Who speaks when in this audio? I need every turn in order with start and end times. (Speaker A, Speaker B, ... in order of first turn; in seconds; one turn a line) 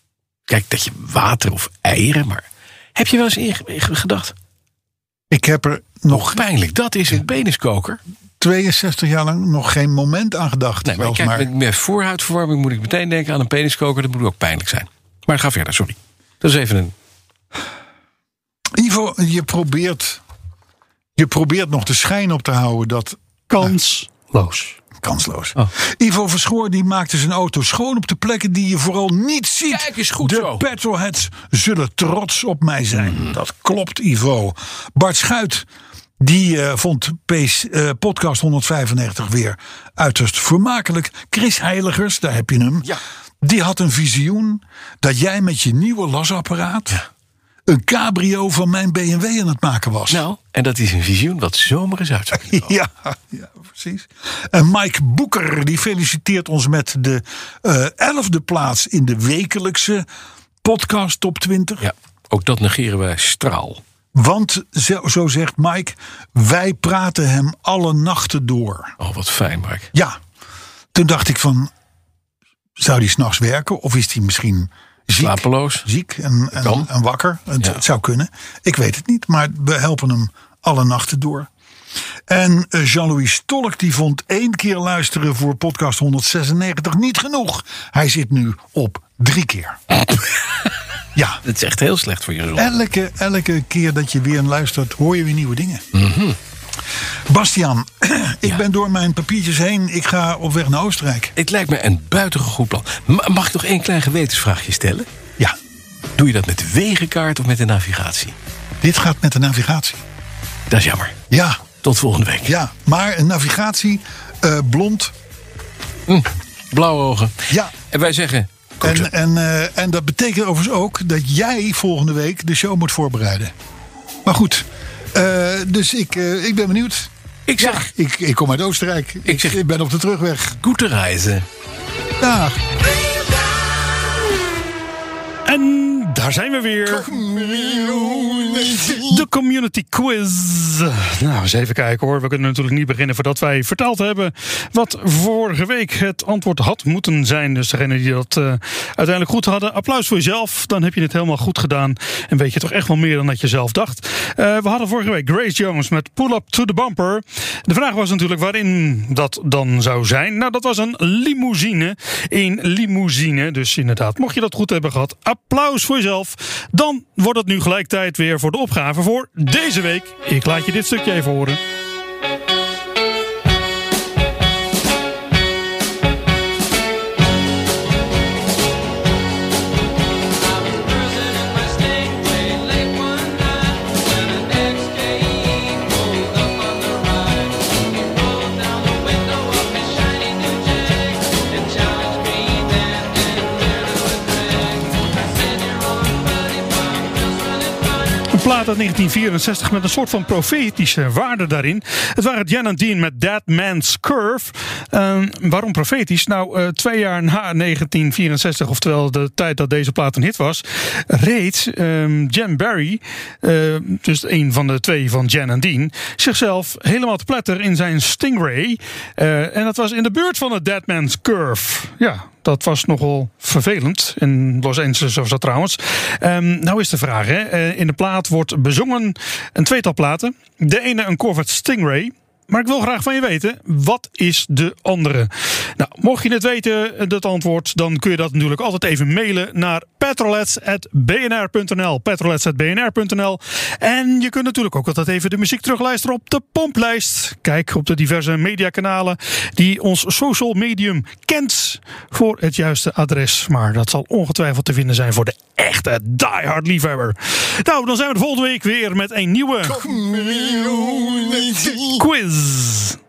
Speaker A: 0.5-2.4
Speaker A: 3.0-4.3
Speaker B: 5.3-6.4
Speaker A: 6.1-8.0
Speaker B: 8.4-11.5
Speaker A: 10.8-16.9
Speaker B: 18.8-20.2
Speaker B: 21.2-23.7
Speaker C: 23.5-24.8
Speaker B: 25.0-35.7
Speaker A: 29.7-30.7
Speaker B: 36.2-47.0
Speaker B: 47.7-50.2
Speaker A: 50.1-52.7
Speaker B: 52.3-60.1
Speaker B: 60.6-61.9
Speaker A: 61.8-63.8
Speaker B: 64.2-69.0
Speaker A: 69.0-69.9
Speaker B: 69.9-70.2
Speaker B: 70.9-71.7
Speaker B: 72.8-81.5
Speaker A: 75.2-75.9
Speaker A: 76.6-76.9
Speaker B: 82.3-89.8
Speaker B: 91.2-91.4
Speaker A: 91.5-92.8
Speaker B: 92.6-95.8
Speaker A: 95.9-96.4
Speaker B: 97.3-101.3
Speaker A: 101.4-105.1
Speaker A: 106.2-108.4
Speaker B: 108.8-110.0
Speaker A: 110.7-111.2
Speaker B: 111.3-111.6
Speaker A: 111.8-112.5
Speaker B: 112.5-115.1
Speaker A: 116.1-119.1
Speaker B: 117.5-117.7
Speaker B: 118.8-123.5
Speaker B: 124.3-130.6
Speaker A: 127.5-127.9
Speaker A: 129.3-129.6
Speaker A: 130.6-131.4
Speaker B: 132.2-132.7
Speaker C: 135.5-171.6
Speaker B: 137.1-139.0
Speaker A: 181.1-183.7
Speaker A: 184.4-187.3
Speaker A: 188.6-191.0
Speaker A: 191.8-193.4
Speaker C: 198.3-263.0